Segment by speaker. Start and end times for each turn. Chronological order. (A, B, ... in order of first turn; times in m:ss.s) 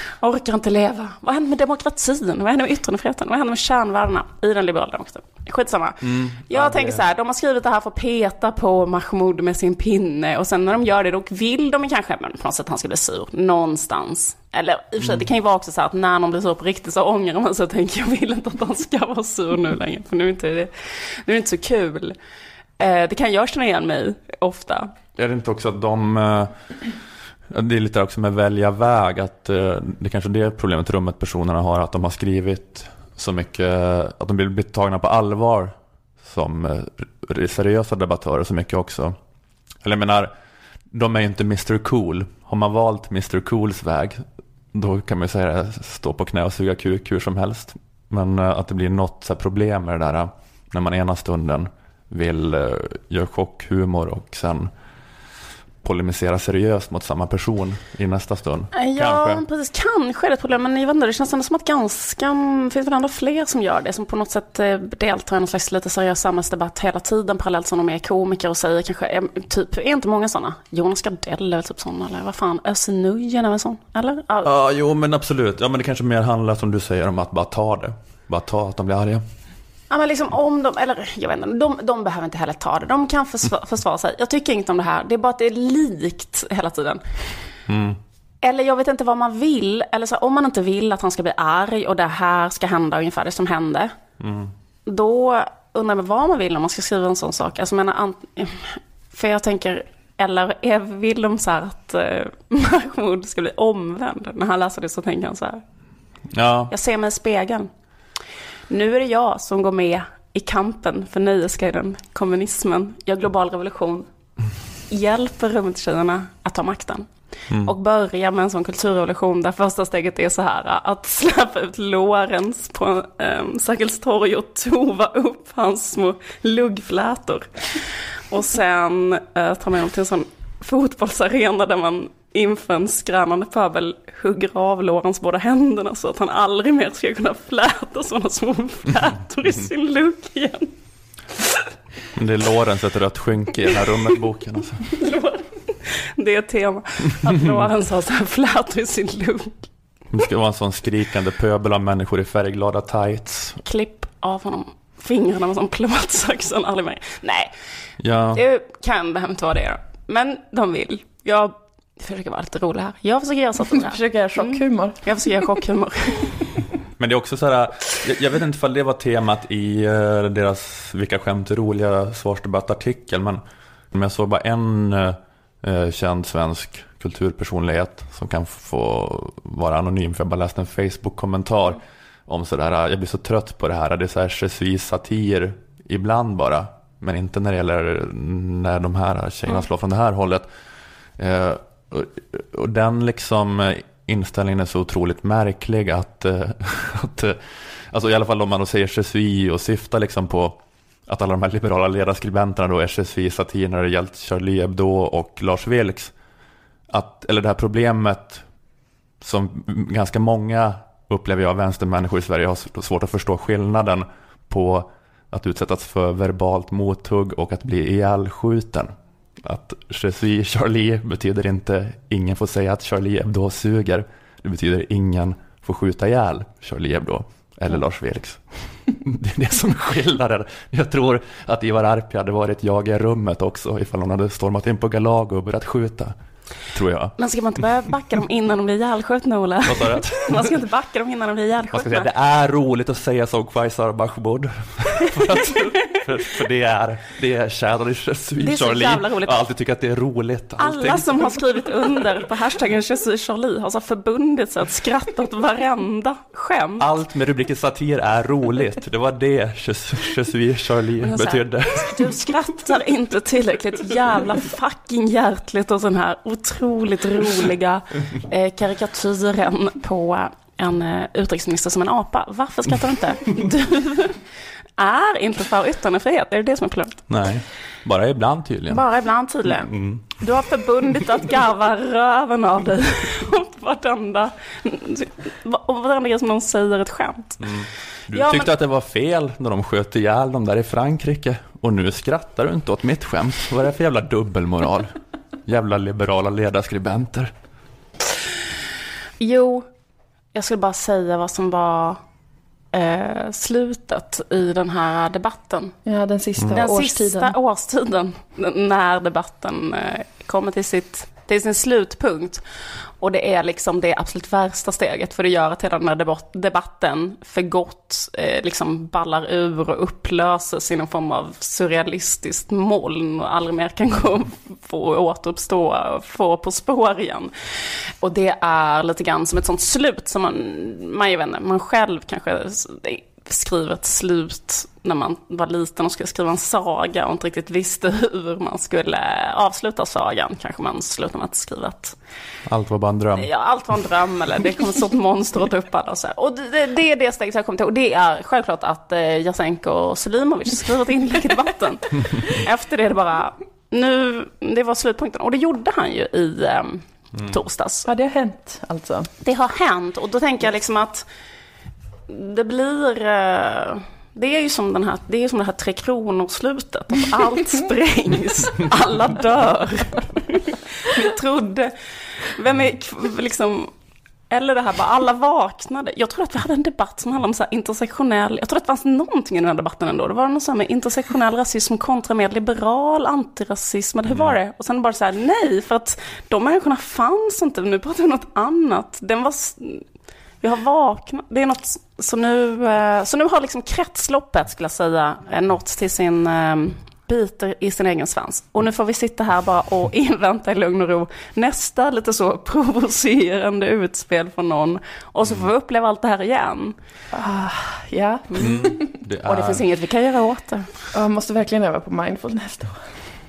0:00.2-0:20.7 A
0:06.0-0:07.0 B
0:15.0-0:15.2 B
0:21.2-0:22.2 A
0:22.8-0:24.9 A
0:25.2-0:26.5 B
0:27.5-0:39.2 B
0:39.8-0:40.3 B
0:40.9-0:54.7 B
0:55.8-0:59.4 B
0:58.8-1:14.5 A
1:14.4-1:19.2 B
1:19.9-1:27.0 A
1:27.7-1:28.0 B
1:28.4-1:33.9 A
1:34.2-1:34.5 B
1:34.9-1:45.6 A
1:46.3-1:46.7 B
1:46.7-1:47.7 A
1:48.7-1:54.1 A
1:54.9-1:57.1 A
1:57.5-1:57.7 B
1:57.6-2:20.7 A
2:22.1-2:24.8 B
2:24.9-2:29.6 A
2:30.1-2:33.6 B
2:33.6-2:37.5 A
2:38.0-2:38.4 B
2:38.3-2:46.7 A
2:43.7-2:45.0 C
2:47.0-3:10.5 B
3:11.2-3:26.1 B
3:26.9-3:28.4 B
3:29.2-3:38.9 B
3:39.4-3:56.1 B
3:56.7-3:57.1 B
3:57.2-4:02.1 A
3:59.6-4:00.5 B
4:01.7-4:11.4 B
4:08.4-4:09.4 A
4:10.6-4:17.0 A
4:16.8-4:22.2 B
4:21.0-4:34.2 A
4:34.8-4:37.0 A
4:37.1-4:38.8 B
4:38.7-4:47.5 A
4:39.4-4:40.0 B
4:47.4-4:54.9 B
4:48.1-4:48.5 A
4:55.4-4:57.3 B
4:59.2-4:59.7 A
5:00.3-5:02.0 A
5:02.7-5:05.7 A
5:05.8-5:07.3 C
5:06.5-5:12.4 A
5:13.0-5:27.3 A
5:28.0-5:42.0 A
5:42.5-5:43.3 B
5:43.2-5:57.9 A
5:57.9-5:59.1 C
5:59.2-6:01.1 A
6:02.1-6:13.7 A
6:14.3-6:29.8 A
6:30.4-6:46.8 A
6:47.1-6:48.8 C
6:48.4-6:49.6 B
6:49.2-6:50.7 A
6:50.9-6:52.8 C